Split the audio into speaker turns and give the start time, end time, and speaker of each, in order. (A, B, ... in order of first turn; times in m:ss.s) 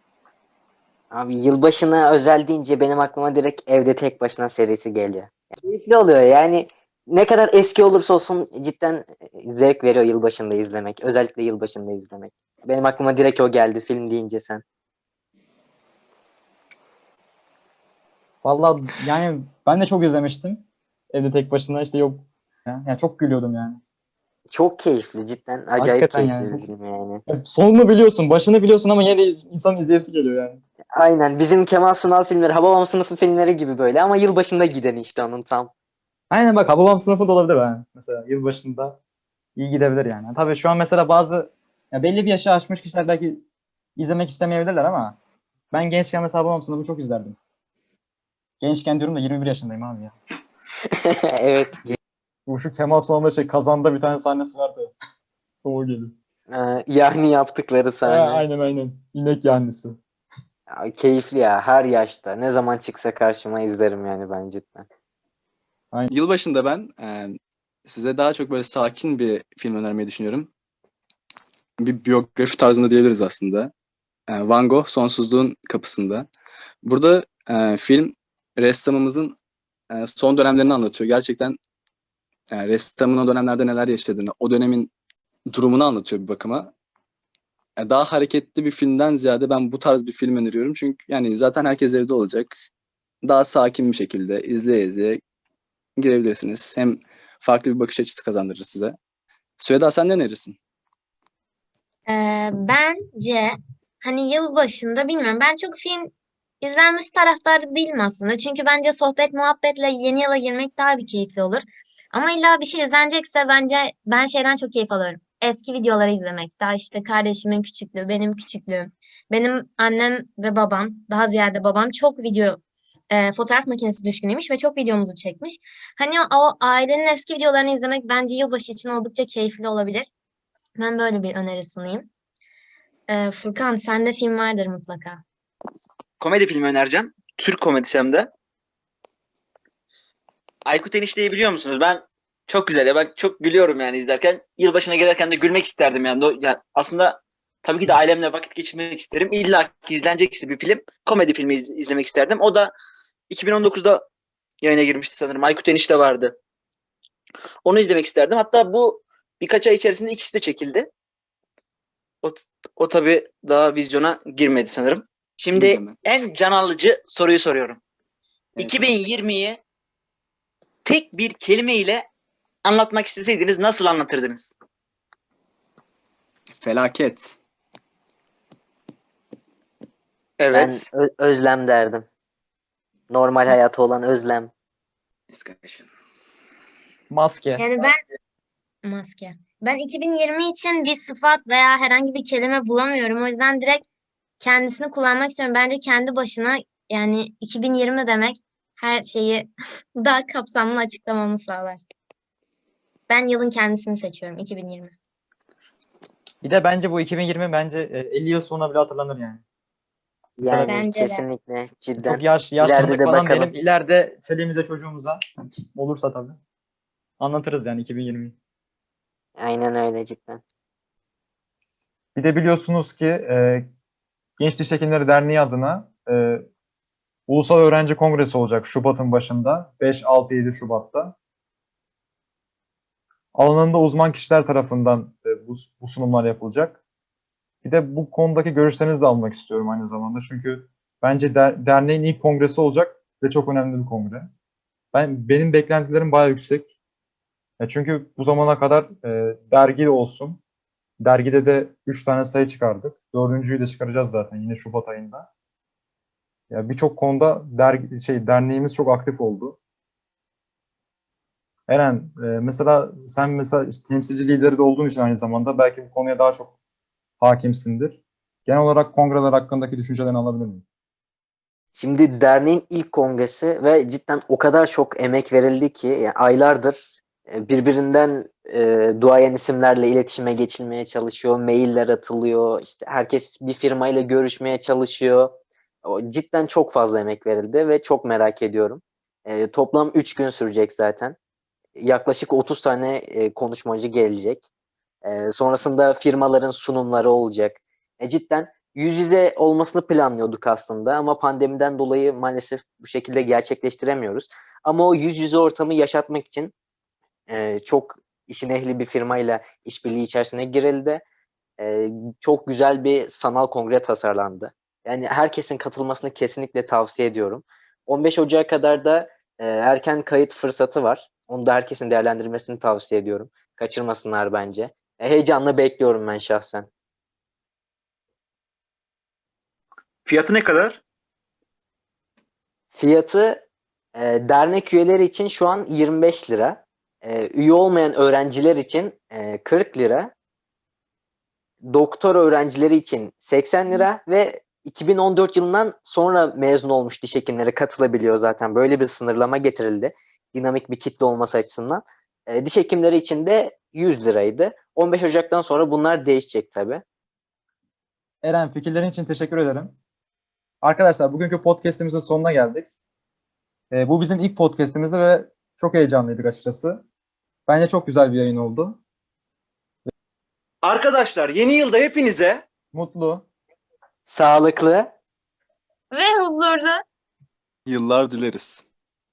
0:01.1-0:14.6 A
0:18.4-0:23.8 B
0:24.5-0:27.2 A
0:25.8-0:26.6 B
0:27.3-0:30.6 B
0:30.9-0:35.7 A
0:36.3-0:39.0 B
0:39.6-0:43.4 B
0:44.0-0:45.2 B
0:45.7-0:47.4 B
0:48.6-0:50.1 B
0:51.0-0:52.0 A
0:52.5-0:54.9 B
0:55.6-0:56.1 B
0:56.5-0:58.4 A
0:58.0-1:00.0 B
1:00.7-1:04.8 A
1:06.1-1:10.5 C
1:11.8-1:13.7 C
1:14.3-1:16.3 C
1:16.8-1:19.4 C
1:19.9-1:21.6 C
1:22.5-1:24.9 C
1:25.5-1:26.7 C
1:27.8-1:32.5 C
1:33.2-1:35.2 C
1:36.0-1:39.0 C
1:39.6-1:40.6 C
1:42.1-2:02.6 D
2:03.1-2:10.1 D
2:10.8-2:12.1 D
2:13.1-2:15.2 D
2:16.2-2:18.3 E
2:20.6-2:32.7 E
2:33.3-2:34.0 E
2:34.6-2:36.3 E
2:37.6-2:40.9 E
2:42.2-2:47.8 E
2:45.5-2:46.0 C
2:48.6-2:49.6 E
2:50.8-2:52.0 E
2:52.6-2:54.5 E
2:56.5-2:57.4 C
3:00.4-3:00.9 E
3:00.5-3:02.0 A
3:03.1-3:04.5 A
3:05.3-3:05.9 C
3:07.1-3:07.6 B
3:07.6-3:08.0 D
3:08.8-3:13.8 D
3:14.4-3:21.8 D
3:23.1-3:24.9 D
3:26.4-3:29.4 B
3:30.4-3:33.5 A
3:30.4-3:30.8 B
3:30.7-3:31.2 D
3:32.0-3:35.2 B
3:35.8-3:36.4 B
3:37.2-3:38.4 B
3:39.4-3:40.4 A
3:42.2-3:43.7 B
3:44.4-3:46.5 B
3:47.3-3:51.1 B
3:53.3-3:56.8 B
3:57.6-4:04.3 B
4:04.9-4:06.7 B
4:07.6-4:10.4 B
4:11.0-4:15.3 B
4:16.5-4:19.6 B
4:21.7-4:26.5 B
4:27.2-4:30.6 B
4:31.7-4:51.2 A
4:51.8-4:54.5 A
4:55.0-5:06.5 A
5:07.3-5:11.0 A
5:11.6-5:26.7 A
5:30.0-5:30.8 E
5:32.7-5:40.1 A
5:41.7-5:56.8 A
5:58.2-5:59.8 B
6:00.6-6:02.7 B
6:03.7-6:06.8 B
6:07.5-6:08.8 B
6:10.6-6:12.4 E
6:12.7-6:13.2 B
6:14.1-6:14.9 A
6:15.9-6:16.8 D
6:17.7-6:18.6 C